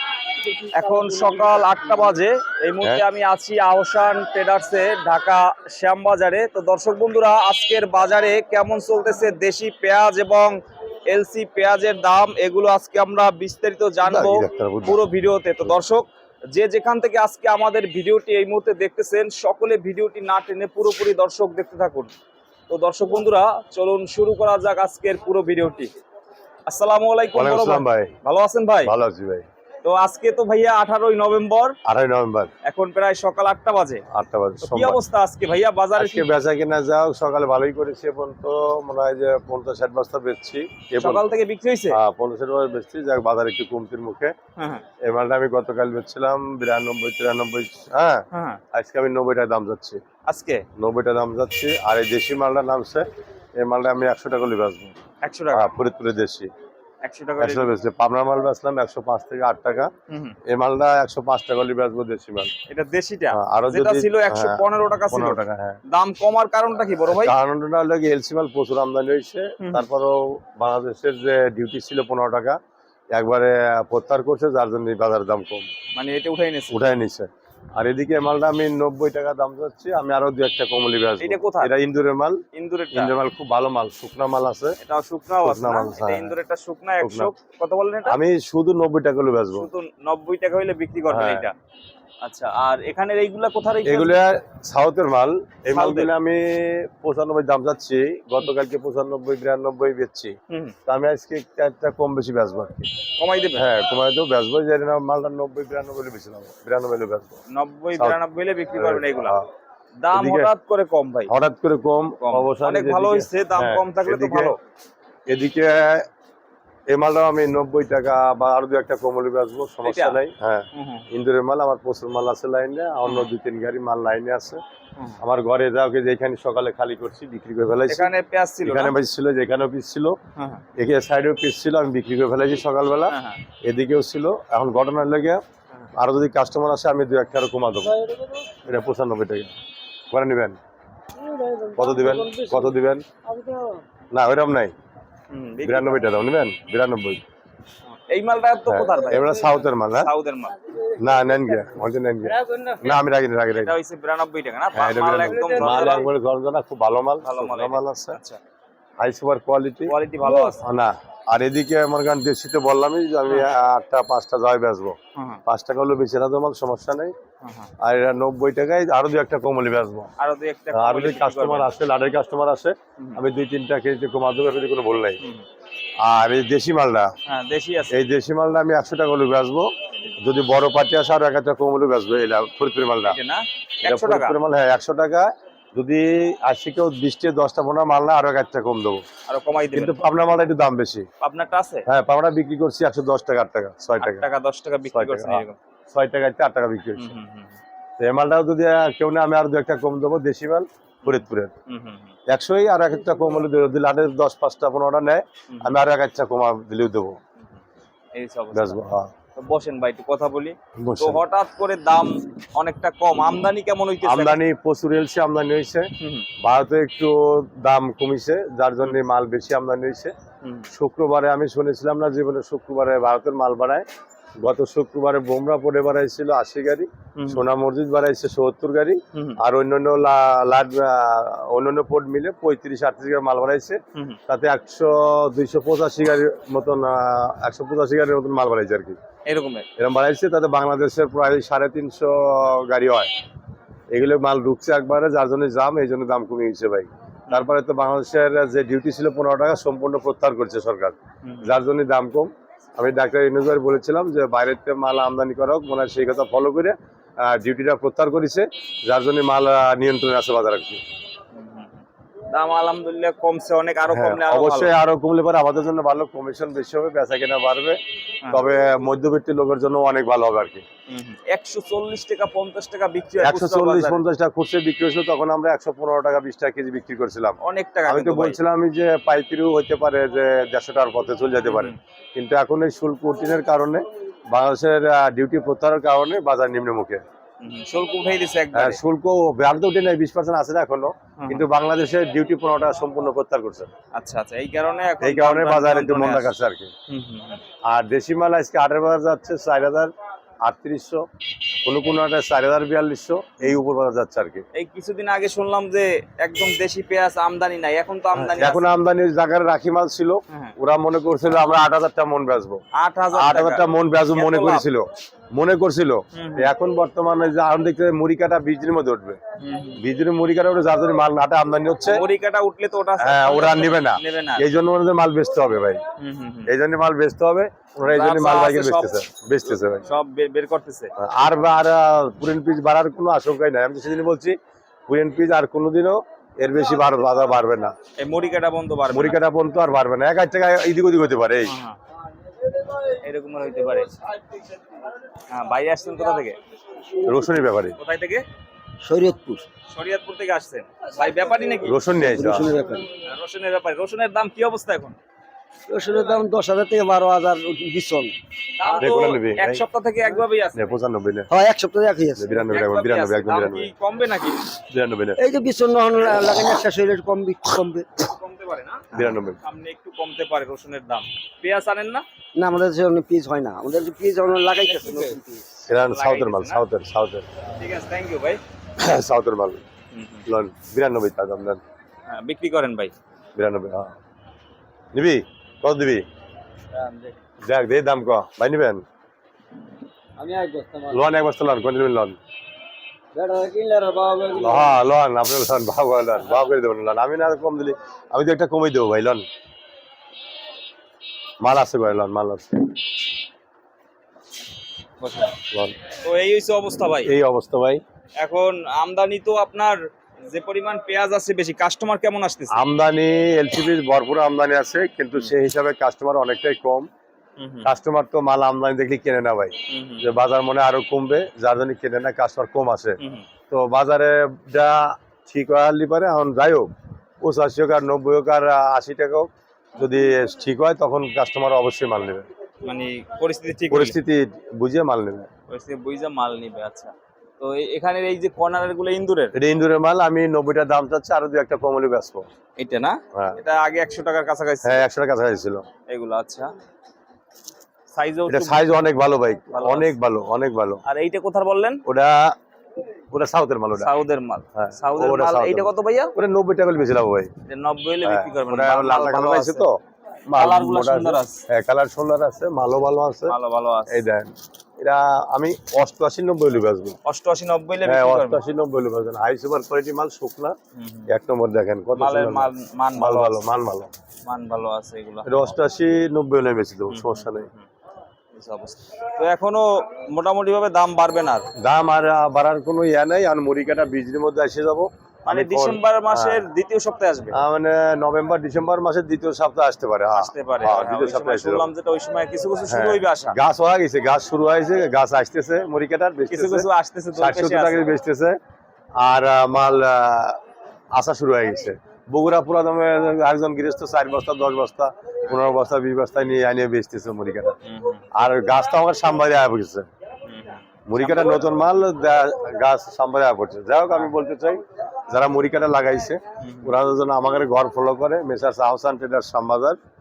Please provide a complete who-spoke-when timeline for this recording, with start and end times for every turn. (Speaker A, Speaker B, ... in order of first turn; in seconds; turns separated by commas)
Speaker A: 0.6-10.6, Speaker A: 11.1-22.1, Speaker B: 14.0-15.1, Speaker A: 22.7-25.9, Speaker A: 26.7-28.9, Speaker B: 27.3-28.1, Speaker B: 28.8-29.5, Speaker A: 29.8-31.8, Speaker B: 31.9-32.5, Speaker A: 32.6-34.0, Speaker B: 34.1-35.0, Speaker A: 34.6-36.3, Speaker B: 36.0-41.3, Speaker A: 41.0-42.0, Speaker B: 41.9-44.3, Speaker A: 44.6-44.8, Speaker B: 45.0-50.0, Speaker A: 48.3-48.6, Speaker A: 50.3-50.6, Speaker B: 50.8-55.0, Speaker A: 55.2-55.7, Speaker B: 55.5-56.5, Speaker A: 57.0-57.7, Speaker B: 57.4-59.9, Speaker A: 60.1-60.4, Speaker B: 60.5-62.5, Speaker A: 62.7-67.3, Speaker B: 63.3-65.8, Speaker B: 67.1-72.6, Speaker A: 69.6-69.8, Speaker B: 73.1-75.7, Speaker A: 76.0-76.8, Speaker B: 76.7-84.8, Speaker A: 81.2-81.7, Speaker A: 82.5-83.1, Speaker A: 84.8-88.2, Speaker B: 85.4-86.3, Speaker B: 87.0-87.3, Speaker B: 88.0-89.7, Speaker A: 89.5-91.5, Speaker B: 91.1-91.5, Speaker A: 92.2-94.2, Speaker B: 93.8-102.9, Speaker A: 95.7-96.1, Speaker A: 100.5-100.8, Speaker A: 103.2-103.7, Speaker B: 103.5-107.4, Speaker A: 107.5-109.4, Speaker B: 108.7-109.5, Speaker A: 110.0-111.3, Speaker B: 110.1-110.5, Speaker B: 111.3-114.5, Speaker A: 112.2-114.6, Speaker B: 115.3-116.1, Speaker B: 116.9-124.6, Speaker A: 119.8-120.2, Speaker A: 120.7-121.1, Speaker A: 123.0-123.3, Speaker B: 125.2-128.1, Speaker A: 127.9-129.0, Speaker B: 128.6-130.2, Speaker A: 130.4-130.6, Speaker B: 130.8-135.4, Speaker A: 133.1-133.4, Speaker B: 136.0-138.0, Speaker C: 138.0-138.5, Speaker B: 138.6-139.5, Speaker B: 140.1-140.6, Speaker C: 141.2-142.7, Speaker B: 141.7-143.0, Speaker C: 143.3-143.8, Speaker B: 144.1-144.7, Speaker A: 145.3-146.0, Speaker B: 145.6-147.2, Speaker A: 147.9-150.6, Speaker B: 148.7-150.1, Speaker B: 151.0-153.8, Speaker C: 152.5-152.8, Speaker A: 153.6-156.1, Speaker B: 154.7-158.2, Speaker A: 157.2-158.4, Speaker B: 159.0-159.9, Speaker A: 159.9-160.6, Speaker B: 160.5-167.1, Speaker A: 165.2-165.4, Speaker A: 167.4-167.7, Speaker B: 167.8-170.1, Speaker A: 170.2-171.7, Speaker B: 170.7-175.2, Speaker A: 175.2-175.5, Speaker B: 176.0-177.1, Speaker A: 177.3-178.0, Speaker B: 177.9-183.2, Speaker A: 183.1-184.4, Speaker B: 183.8-189.0, Speaker A: 189.3-190.0, Speaker B: 189.7-191.1, Speaker A: 191.2-191.9, Speaker B: 191.9-194.3, Speaker A: 194.0-195.6, Speaker B: 194.9-197.2, Speaker A: 197.0-197.6, Speaker B: 198.0-201.5, Speaker A: 201.0-202.1, Speaker B: 202.3-207.2, Speaker A: 205.5-205.8, Speaker A: 208.1-208.8, Speaker B: 208.5-209.1, Speaker A: 209.3-214.4, Speaker B: 210.8-211.2, Speaker B: 214.0-220.1, Speaker A: 216.0-216.3, Speaker A: 220.4-220.7, Speaker B: 220.7-223.9, Speaker B: 224.4-239.0, Speaker A: 227.2-227.4, Speaker A: 229.1-229.4, Speaker A: 239.3-239.7, Speaker B: 239.8-243.1, Speaker B: 243.9-260.8, Speaker A: 251.2-251.6, Speaker A: 261.3-264.7, Speaker B: 263.9-270.6, Speaker A: 270.9-274.0, Speaker B: 273.2-287.0, Speaker A: 277.4-278.4, Speaker A: 281.4-281.8, Speaker A: 287.4-288.8, Speaker B: 288.5-293.7, Speaker A: 291.2-291.5, Speaker A: 293.9-296.3, Speaker B: 295.0-296.7, Speaker A: 296.9-297.4, Speaker B: 297.6-299.9, Speaker B: 300.4-301.0, Speaker B: 301.6-304.4, Speaker A: 304.5-308.6, Speaker B: 308.1-312.6, Speaker A: 310.3-310.6, Speaker A: 312.8-314.7, Speaker B: 313.1-319.2, Speaker A: 316.1-316.5, Speaker A: 319.4-319.8, Speaker B: 319.8-322.0, Speaker A: 321.9-324.5, Speaker B: 323.0-325.8, Speaker A: 326.0-326.5, Speaker B: 326.5-329.9, Speaker A: 327.8-330.9, Speaker B: 331.0-334.4, Speaker B: 334.9-337.8, Speaker A: 338.0-339.2, Speaker B: 338.9-341.5, Speaker A: 341.5-341.8, Speaker A: 342.9-344.0, Speaker A: 345.3-346.4, Speaker B: 347.0-347.8, Speaker A: 347.8-348.2, Speaker C: 348.8-349.5, Speaker A: 349.7-351.8, Speaker B: 351.6-352.5, Speaker C: 352.0-352.9, Speaker A: 352.9-355.0, Speaker C: 355.7-358.2, Speaker A: 358.6-360.8, Speaker B: 358.8-359.6, Speaker B: 360.5-361.3, Speaker C: 361.3-362.5, Speaker B: 362.2-363.7, Speaker A: 362.5-364.5, Speaker B: 364.6-365.2, Speaker C: 365.2-368.1, Speaker A: 368.0-372.0, Speaker B: 368.9-369.4, Speaker C: 372.4-375.4, Speaker A: 374.7-375.2, Speaker B: 375.7-377.2, Speaker A: 375.7-376.6, Speaker A: 377.6-378.4, Speaker B: 378.8-379.6, Speaker A: 379.9-380.3, Speaker B: 380.3-381.6, Speaker A: 382.1-382.9, Speaker B: 383.4-383.9, Speaker B: 384.9-386.1, Speaker B: 387.4-388.8, Speaker C: 390.2-391.0, Speaker B: 390.9-392.2, Speaker C: 393.1-394.7, Speaker B: 394.3-399.3, Speaker B: 401.4-402.7, Speaker A: 405.0-405.3, Speaker B: 405.5-405.8, Speaker A: 405.9-407.1, Speaker B: 407.1-407.8, Speaker A: 408.2-412.6, Speaker B: 412.5-416.9, Speaker A: 417.4-417.7, Speaker B: 417.6-423.0, Speaker A: 419.7-420.1, Speaker A: 423.0-423.3, Speaker B: 423.5-426.7, Speaker B: 427.2-432.3, Speaker A: 432.6-434.0, Speaker B: 433.7-435.3, Speaker A: 435.5-439.4, Speaker B: 439.4-442.3, Speaker A: 442.6-444.8, Speaker B: 444.6-445.6, Speaker A: 445.9-446.5, Speaker A: 447.9-448.7, Speaker B: 448.3-450.8, Speaker A: 449.5-449.9, Speaker A: 450.9-451.8, Speaker B: 451.9-452.4, Speaker B: 453.1-453.9, Speaker A: 453.8-456.1, Speaker B: 454.6-457.3, Speaker A: 457.5-459.7, Speaker B: 458.0-459.8, Speaker B: 460.3-463.4, Speaker A: 460.4-461.4, Speaker A: 463.3-464.0, Speaker B: 463.9-467.0, Speaker A: 467.1-468.4, Speaker B: 467.8-470.6, Speaker A: 470.8-471.1, Speaker B: 471.1-473.9, Speaker A: 471.9-473.5, Speaker A: 474.3-475.6, Speaker B: 475.2-477.5, Speaker A: 476.9-477.7, Speaker A: 478.3-481.5, Speaker B: 481.6-486.5, Speaker A: 485.2-487.4, Speaker B: 487.3-491.7, Speaker A: 490.1-493.4, Speaker B: 492.7-498.4, Speaker A: 496.3-497.9, Speaker B: 499.0-500.4, Speaker B: 500.9-507.6, Speaker A: 507.6-508.1, Speaker B: 508.1-509.9, Speaker A: 510.3-511.5, Speaker B: 510.9-519.8, Speaker A: 516.4-516.8